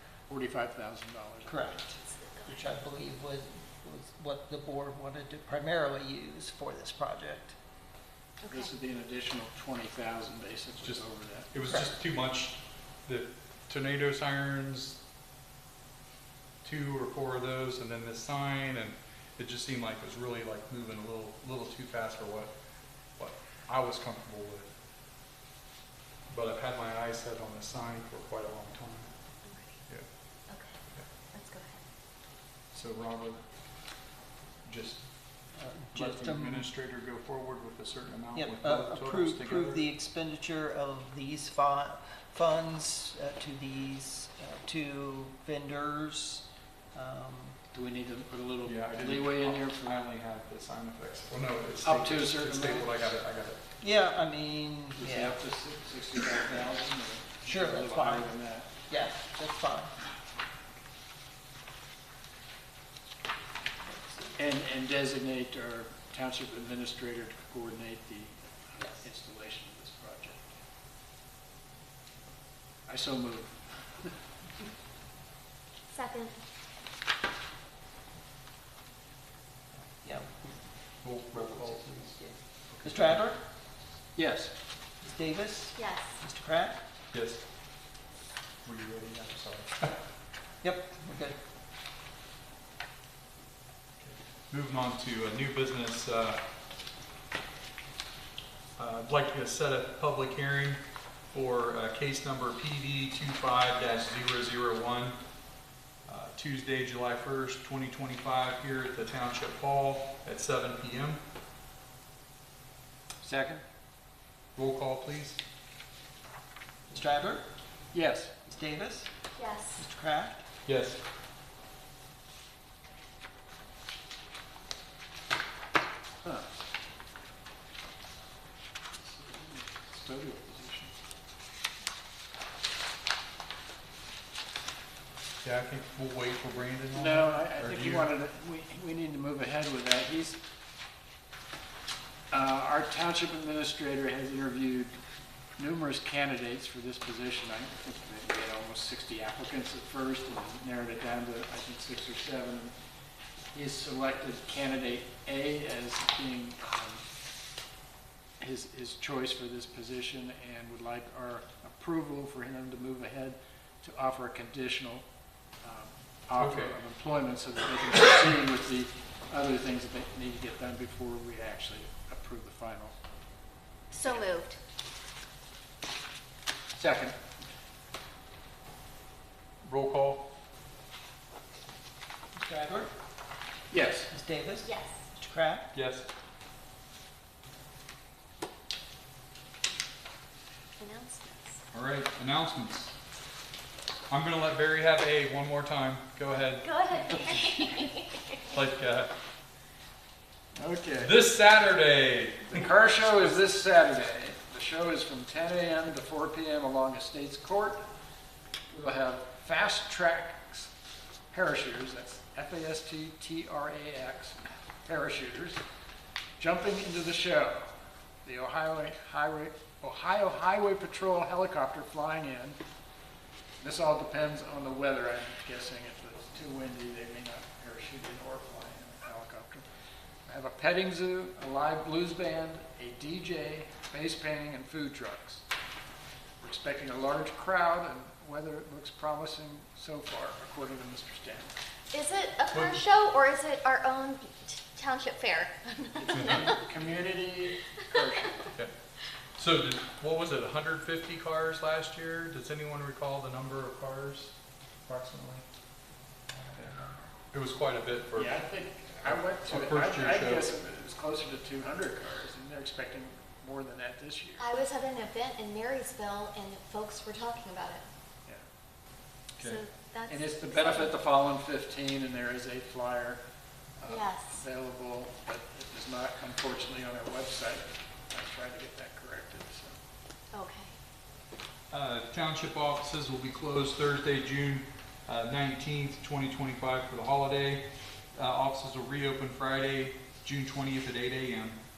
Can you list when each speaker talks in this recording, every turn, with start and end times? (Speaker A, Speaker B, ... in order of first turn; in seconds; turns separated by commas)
Speaker A: 0.3-1.7, Speaker B: 1.4-1.9, Speaker C: 1.9-2.7, Speaker B: 2.5-7.5, Speaker C: 8.4-8.7, Speaker A: 8.5-11.5, Speaker D: 10.8-15.0, Speaker D: 16.6-22.5, Speaker D: 23.2-24.7, Speaker D: 26.3-29.1, Speaker C: 29.4-29.8, Speaker C: 30.5-30.8, Speaker C: 31.3-31.8, Speaker D: 32.7-33.4, Speaker D: 34.6-35.0, Speaker B: 35.5-36.7, Speaker D: 35.9-39.8, Speaker B: 38.3-47.6, Speaker A: 47.7-49.9, Speaker D: 48.6-53.6, Speaker A: 51.8-53.1, Speaker B: 53.8-55.4, Speaker A: 55.0-58.7, Speaker B: 57.4-58.3, Speaker B: 58.9-59.9, Speaker B: 63.9-64.4, Speaker A: 64.3-70.5, Speaker A: 72.9-74.1, Speaker C: 75.9-76.4, Speaker B: 80.0-80.6, Speaker D: 81.0-82.2, Speaker B: 81.3-83.4, Speaker D: 82.7-83.2, Speaker A: 84.1-84.5, Speaker B: 85.0-86.8, Speaker C: 85.8-86.2, Speaker D: 87.1-87.4, Speaker D: 88.6-90.0, Speaker B: 90.6-91.4, Speaker D: 94.0-96.4, Speaker D: 98.8-100.8, Speaker D: 101.3-105.2, Speaker D: 106.0-111.2, Speaker A: 113.2-113.6, Speaker D: 114.5-115.4, Speaker B: 116.9-117.4, Speaker A: 117.9-118.3, Speaker B: 118.5-119.1, Speaker C: 119.4-119.8, Speaker B: 119.8-120.4, Speaker D: 120.7-121.0, Speaker A: 129.1-130.9, Speaker D: 135.4-138.1, Speaker A: 136.9-140.4, Speaker A: 142.3-144.9, Speaker A: 145.6-152.7, Speaker A: 153.5-157.0, Speaker A: 158.4-165.0, Speaker A: 165.6-172.9, Speaker D: 166.3-166.8, Speaker C: 173.9-174.6, Speaker A: 176.7-177.1, Speaker D: 179.6-180.3, Speaker B: 182.4-182.9, Speaker A: 183.7-184.1, Speaker B: 184.1-185.7, Speaker C: 184.6-185.0, Speaker D: 185.7-186.1, Speaker C: 190.8-191.6, Speaker D: 191.7-192.9, Speaker D: 194.1-196.8, Speaker C: 196.6-198.3, Speaker D: 198.5-199.1, Speaker A: 200.5-201.2, Speaker D: 201.0-202.7, Speaker A: 202.5-207.8, Speaker A: 208.7-210.7, Speaker A: 211.3-215.6, Speaker A: 216.4-217.7, Speaker A: 218.2-222.6, Speaker A: 223.6-229.6, Speaker A: 230.3-235.4, Speaker A: 236.4-241.5, Speaker C: 241.9-246.6, Speaker D: 242.5-242.8, Speaker D: 246.1-246.4, Speaker A: 246.2-248.4, Speaker C: 247.7-248.3, Speaker D: 249.4-255.4, Speaker D: 257.3-258.4, Speaker A: 258.2-264.4, Speaker D: 259.0-260.5, Speaker C: 264.4-267.8, Speaker C: 269.4-271.0, Speaker A: 270.1-273.2, Speaker A: 273.8-279.7, Speaker C: 273.8-274.4, Speaker C: 280.3-280.7, Speaker D: 281.7-291.6